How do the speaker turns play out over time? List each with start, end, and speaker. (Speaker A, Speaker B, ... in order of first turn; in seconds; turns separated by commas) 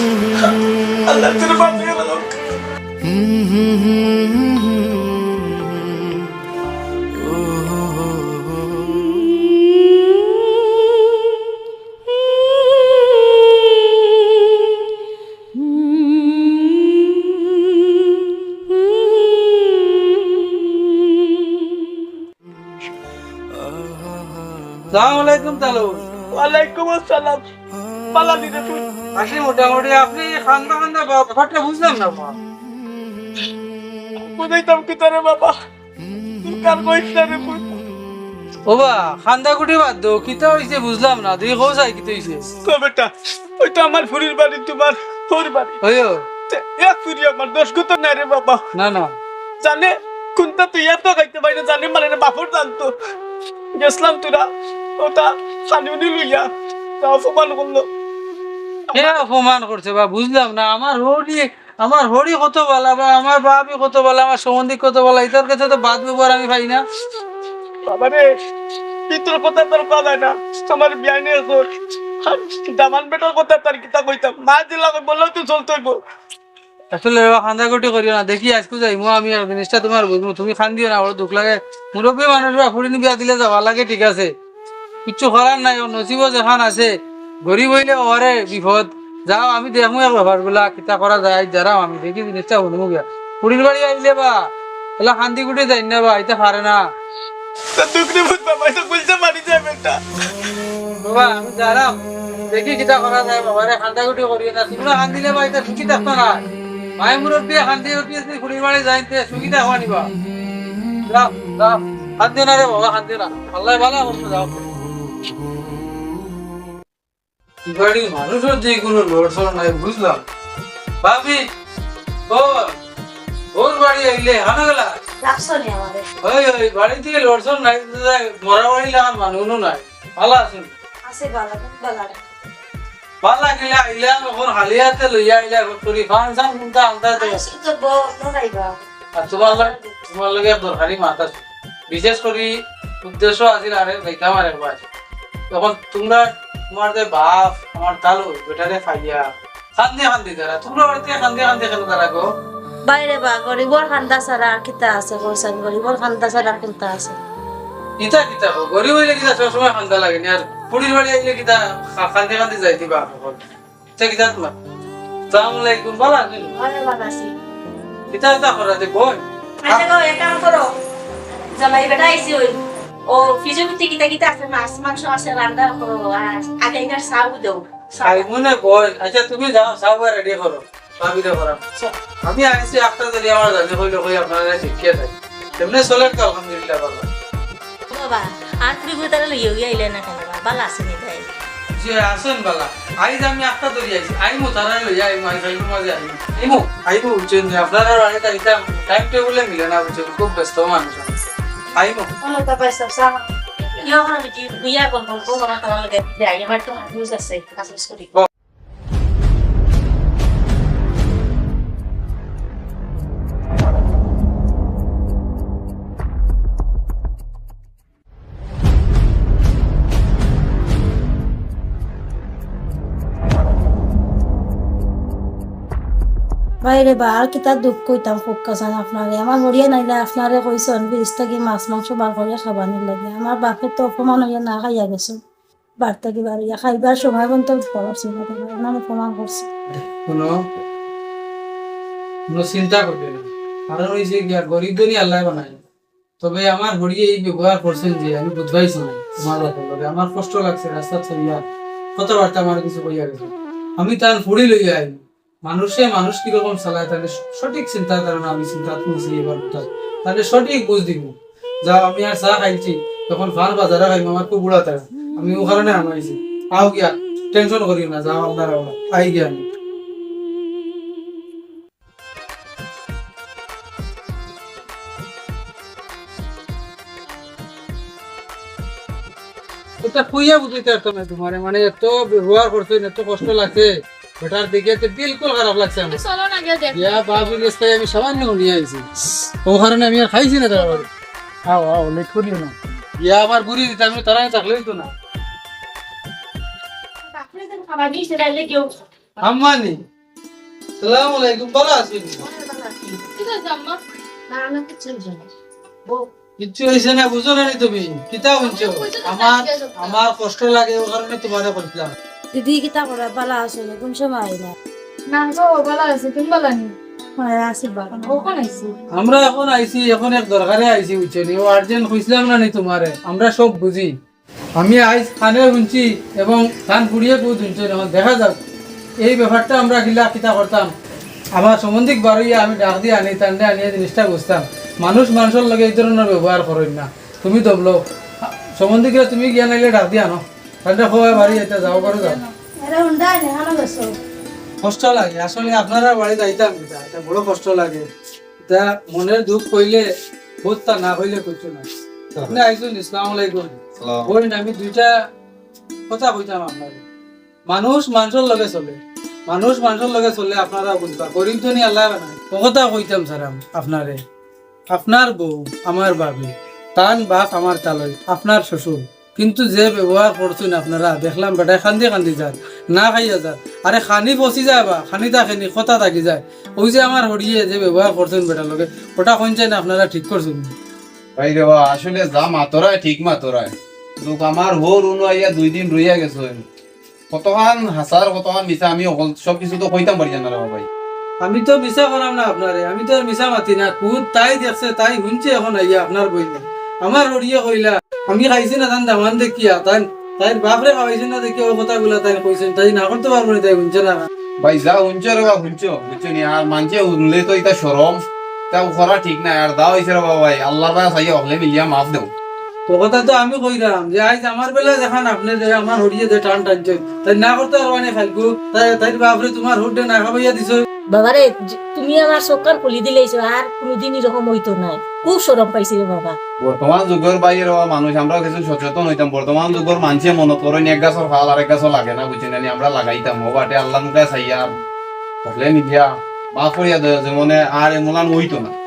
Speaker A: 1.1-2.4, Speaker B: 24.9-26.1, Speaker A: 26.3-27.4, Speaker A: 28.1-28.9, Speaker B: 29.1-32.4, Speaker A: 34.3-35.6, Speaker A: 36.4-37.8, Speaker B: 38.7-42.5, Speaker A: 42.6-45.8, Speaker B: 45.8-46.2, Speaker A: 46.5-48.6, Speaker B: 48.7-49.1, Speaker A: 49.6-52.9, Speaker A: 53.8-54.4, Speaker A: 55.0-56.5, Speaker A: 57.0-57.9, Speaker A: 58.9-59.2, Speaker B: 58.9-66.8, Speaker A: 67.9-68.3, Speaker A: 69.1-71.7, Speaker A: 72.2-76.0, Speaker B: 76.9-84.3, Speaker B: 85.0-94.4, Speaker B: 95.0-96.8, Speaker A: 97.8-100.0, Speaker B: 101.0-106.4, Speaker B: 107.0-110.1, Speaker B: 111.1-114.7, Speaker B: 117.6-120.2, Speaker B: 121.0-121.4, Speaker B: 122.3-122.8, Speaker B: 123.5-124.9, Speaker C: 125.2-126.1, Speaker B: 126.2-130.7, Speaker C: 131.1-132.2, Speaker B: 133.2-137.4, Speaker C: 137.2-138.8, Speaker B: 139.1-144.8, Speaker C: 139.4-139.9, Speaker B: 145.5-149.2, Speaker B: 149.8-152.3, Speaker C: 152.9-157.2, Speaker B: 158.0-163.4, Speaker B: 164.0-164.5, Speaker B: 165.3-166.5, Speaker D: 166.6-167.3, Speaker B: 168.1-169.8, Speaker D: 169.6-170.7, Speaker D: 171.6-178.3, Speaker B: 178.0-181.6, Speaker B: 182.2-187.1, Speaker D: 187.9-191.3, Speaker B: 191.8-201.2, Speaker B: 201.8-202.1, Speaker C: 202.2-203.2, Speaker D: 203.8-208.1, Speaker C: 226.6-235.2, Speaker C: 235.8-239.5, Speaker B: 239.8-240.4, Speaker B: 242.3-245.6, Speaker B: 246.2-251.4, Speaker B: 251.9-269.4, Speaker B: 279.8-286.1, Speaker E: 285.9-287.2, Speaker B: 286.7-290.9, Speaker B: 291.4-294.9, Speaker D: 297.2-298.7, Speaker B: 299.2-299.8, Speaker B: 300.8-302.2, Speaker E: 303.1-303.7, Speaker E: 304.7-304.9, Speaker B: 306.4-311.9, Speaker E: 308.5-309.9, Speaker C: 312.3-314.6, Speaker E: 315.1-316.7, Speaker C: 317.2-318.6, Speaker B: 318.9-323.9, Speaker B: 324.6-328.4, Speaker B: 329.0-330.7, Speaker B: 331.3-342.2, Speaker C: 341.1-343.9, Speaker B: 344.6-347.9, Speaker B: 348.5-349.9, Speaker B: 350.4-351.6, Speaker B: 352.3-354.9, Speaker F: 353.8-354.1, Speaker B: 355.9-356.8, Speaker B: 357.5-364.0, Speaker B: 364.7-380.5, Speaker F: 381.2-386.4, Speaker F: 387.1-390.7, Speaker B: 391.2-404.1, Speaker F: 404.4-412.1, Speaker B: 412.7-420.7, Speaker D: 420.9-426.2, Speaker F: 426.4-434.5, Speaker F: 435.2-438.5